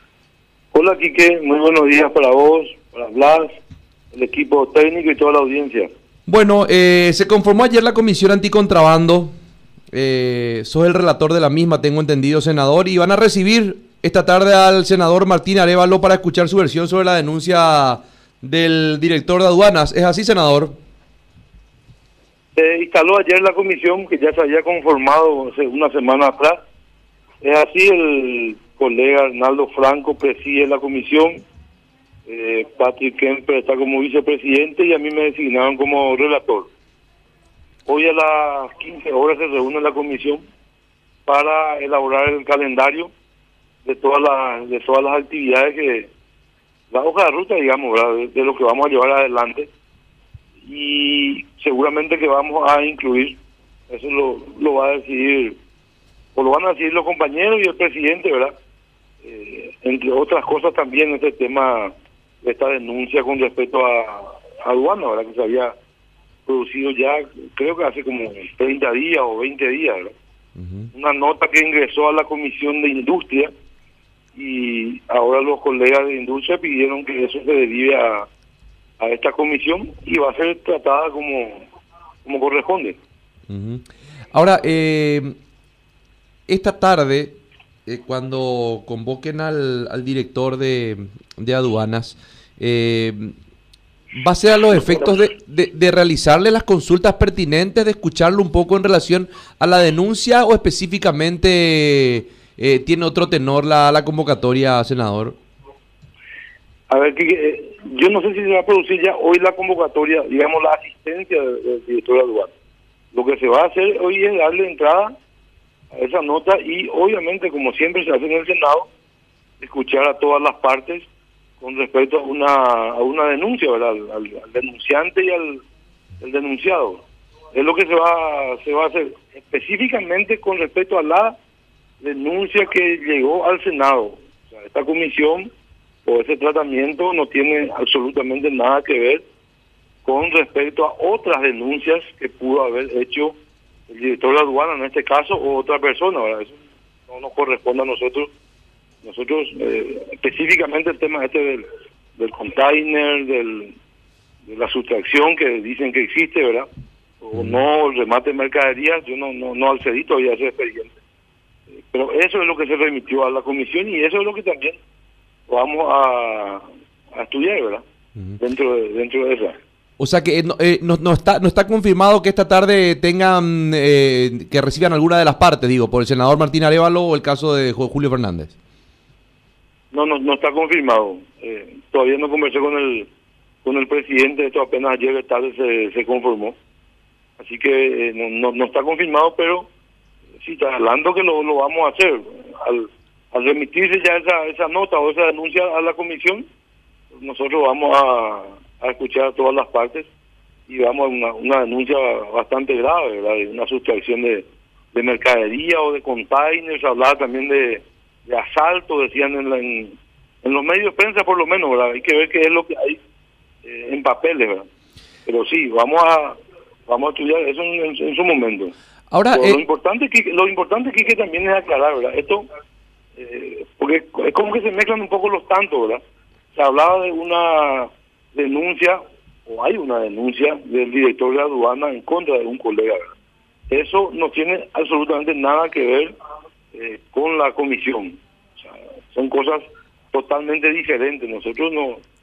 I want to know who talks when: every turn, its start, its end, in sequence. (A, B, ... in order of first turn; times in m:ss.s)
0:00.7-0:03.5 A
0:04.1-0:05.9 A
0:06.3-0:09.3 B
0:09.9-0:20.7 B
0:22.6-0:26.6 A
0:27.4-0:31.4 A
0:32.3-0:36.7 A
0:37.9-0:40.4 A
0:41.3-0:43.1 A
0:43.8-0:46.1 A
0:46.9-0:49.7 A
0:50.6-0:53.4 A
0:53.9-0:55.6 A
0:56.3-0:58.5 A
0:59.2-1:05.7 A
1:06.5-1:10.1 A
1:10.6-1:10.9 B
1:10.9-1:13.5 A
1:14.3-1:18.3 A
1:19.0-1:21.6 A
1:22.2-1:23.0 A
1:23.5-1:25.3 B
1:26.5-1:33.3 B
1:34.1-1:45.4 B
1:46.9-1:52.5 A
1:53.1-1:55.1 A
1:55.9-1:58.9 A
1:59.6-2:01.0 A
2:01.6-2:05.6 A
2:06.2-2:07.0 A
2:07.5-2:11.4 A
2:12.0-2:15.5 A
2:16.0-2:19.2 A
2:20.0-2:23.3 A
2:23.9-2:26.5 A
2:27.1-2:28.3 A
2:29.0-2:31.6 A
2:32.2-2:33.7 A
2:34.4-2:36.7 A
2:37.2-2:40.9 A
2:37.3-2:37.6 B
2:41.9-2:44.8 A
2:45.5-2:47.8 A
2:48.4-2:49.6 A
2:50.0-2:58.5 B
2:59.9-3:03.1 A
3:03.6-3:06.5 A
3:07.4-3:09.7 A
3:10.4-3:16.4 A
3:17.1-3:20.1 A
3:20.7-3:33.0 A
3:33.6-3:34.6 A
3:35.2-3:38.7 A
3:39.1-3:39.6 B
3:39.3-3:42.4 A
3:43.2-3:46.0 A
3:46.5-3:53.1 A
3:53.7-3:56.1 A
3:56.7-4:02.0 A